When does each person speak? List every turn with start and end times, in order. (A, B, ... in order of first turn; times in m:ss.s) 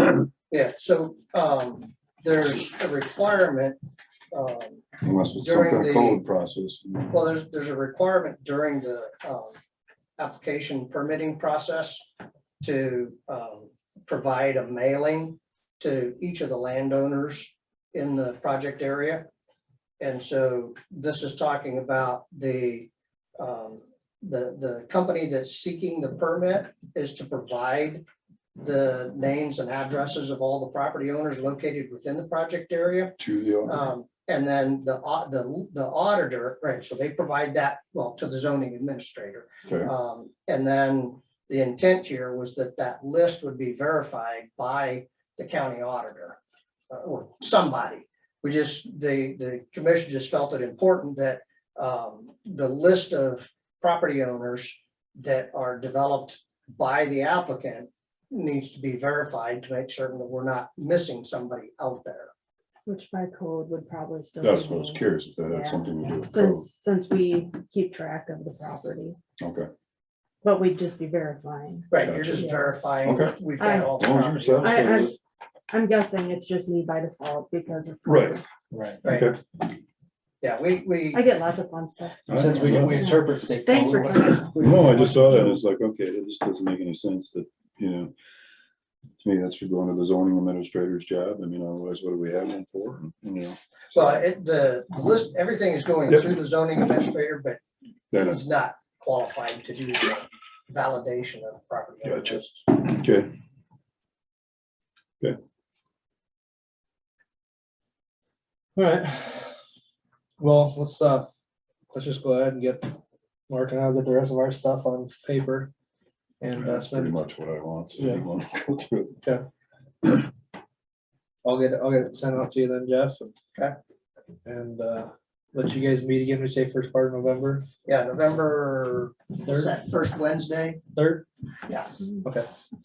0:00.5-0:03.8 A
0:04.3-0:06.2 A
0:05.0-0:07.2 B
0:07.1-0:09.6 A
0:10.2-0:12.1 A
0:12.6-0:19.3 A
0:20.0-0:28.0 A
0:28.6-0:46.4 A
0:33.2-0:33.8 B
0:39.7-0:39.9 B
0:46.9-1:02.3 A
1:02.9-1:09.2 C
1:04.4-1:06.7 B
1:09.4-1:09.7 B
1:10.4-1:12.7 C
1:11.9-1:15.1 A
1:12.0-1:12.4 B
1:13.0-1:15.2 B
1:13.6-1:14.0 C
1:14.6-1:15.2 C
1:15.7-1:18.4 C
1:18.1-1:18.4 B
1:18.7-1:19.0 D
1:19.0-1:19.3 A
1:19.1-1:19.4 B
1:20.4-1:21.3 A
1:21.1-1:23.1 C
1:22.3-1:23.2 B
1:22.4-1:25.4 D
1:23.6-1:24.6 C
1:24.6-1:28.1 B
1:29.2-1:34.2 B
1:33.9-1:37.6 A
1:38.1-1:38.4 B
1:38.1-1:42.7 A
1:42.0-1:43.3 B
1:48.8-1:49.6 D
1:50.4-1:51.3 D
1:51.9-1:52.9 D
1:53.5-1:55.7 D
1:56.4-1:57.2 D
1:56.6-1:59.2 B
1:58.0-1:58.3 D
2:01.4-2:03.3 D
2:04.4-2:07.7 D
2:07.9-2:10.8 A
2:09.5-2:09.7 D
2:10.9-2:11.3 D